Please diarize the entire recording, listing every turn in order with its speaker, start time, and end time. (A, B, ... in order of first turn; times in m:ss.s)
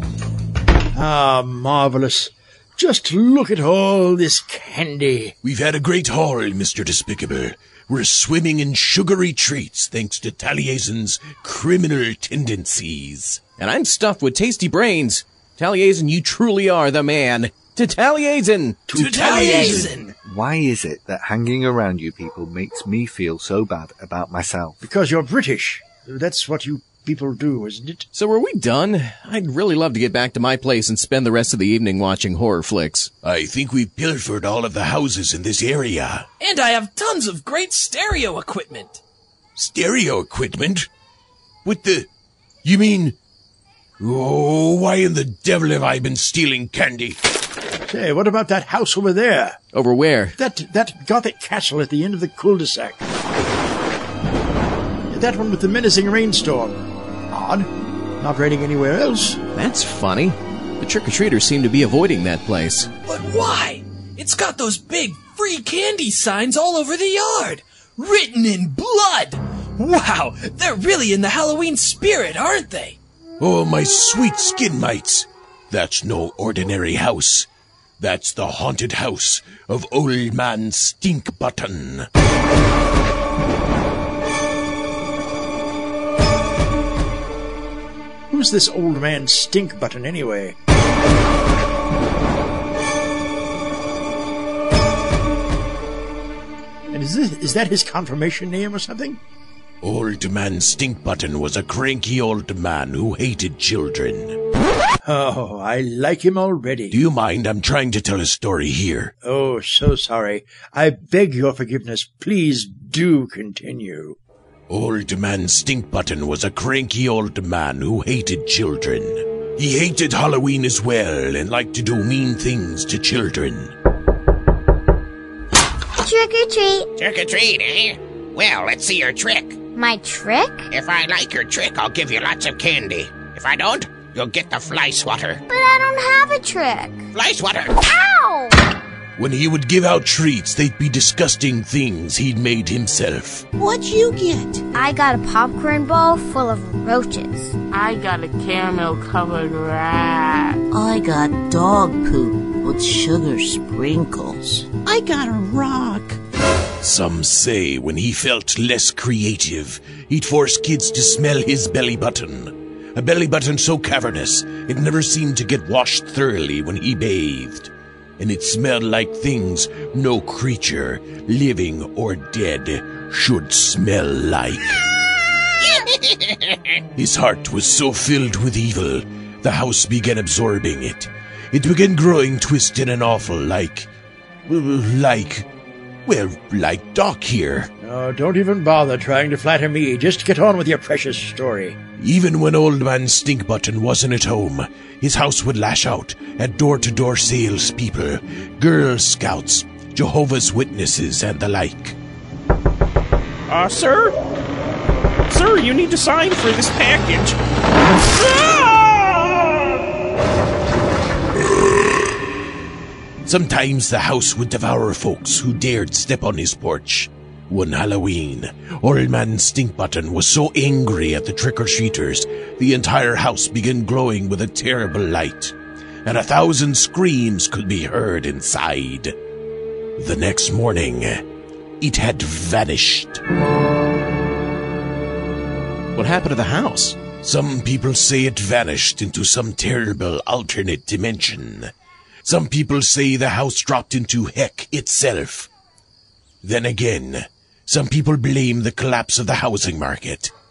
0:00.9-0:05.3 A
0:05.4-0:13.4 B
0:13.6-0:19.0 C
0:18.9-0:20.0 A
0:18.9-0:20.1 D
0:19.0-0:19.9 B
0:20.2-0:24.8 E
0:24.8-0:28.0 A
0:28.1-0:33.1 C
0:33.2-0:36.3 B
0:36.4-0:39.0 D
0:39.6-0:40.9 B
0:41.6-0:42.1 B
0:42.6-0:43.2 B
0:44.0-0:47.2 B
0:47.9-0:49.6 A
0:49.7-0:50.3 C
0:50.4-0:53.0 A
0:55.1-0:56.8 A
0:57.3-0:59.4 A
0:59.5-1:02.9 C
1:03.0-1:13.0 D
1:13.4-1:17.5 B
1:18.0-1:22.1 B
1:28.3-1:30.5 A
1:36.9-1:39.2 A
1:39.8-1:44.4 B
1:45.0-1:47.0 A
1:46.9-1:49.1 B
1:49.2-1:54.2 A
1:54.7-2:03.7 B
2:06.0-2:06.9 F
2:07.0-2:09.6 G
2:09.8-2:10.7 F
2:10.7-2:15.4 G
2:15.5-2:17.0 F
2:17.1-2:17.8 G
2:17.9-2:18.5 F
2:19.2-2:23.4 B
2:23.6-2:24.6 G
2:24.7-2:27.5 F
2:27.7-2:30.6 H
2:30.7-2:34.7 I
2:34.8-2:36.2 G
2:36.8-2:54.8 B
2:55.6-2:56.4 G
2:56.9-3:03.9 B
3:04.5-3:05.4 B
3:06.0-3:07.7 B
3:07.8-3:11.8 A
3:12.0-3:22.0 B
3:23.5-3:24.1 J
3:25.3-3:27.3 J
3:25.4-3:27.1 G
3:28.6-3:28.9 G
3:33.2-3:49.1 B
3:50.0-3:51.2 B
3:51.8-3:53.2 B
3:55.9-3:57.0 C
3:57.2-4:01.7 B
4:02.2-4:05.5 B
4:06.4-4:10.3 B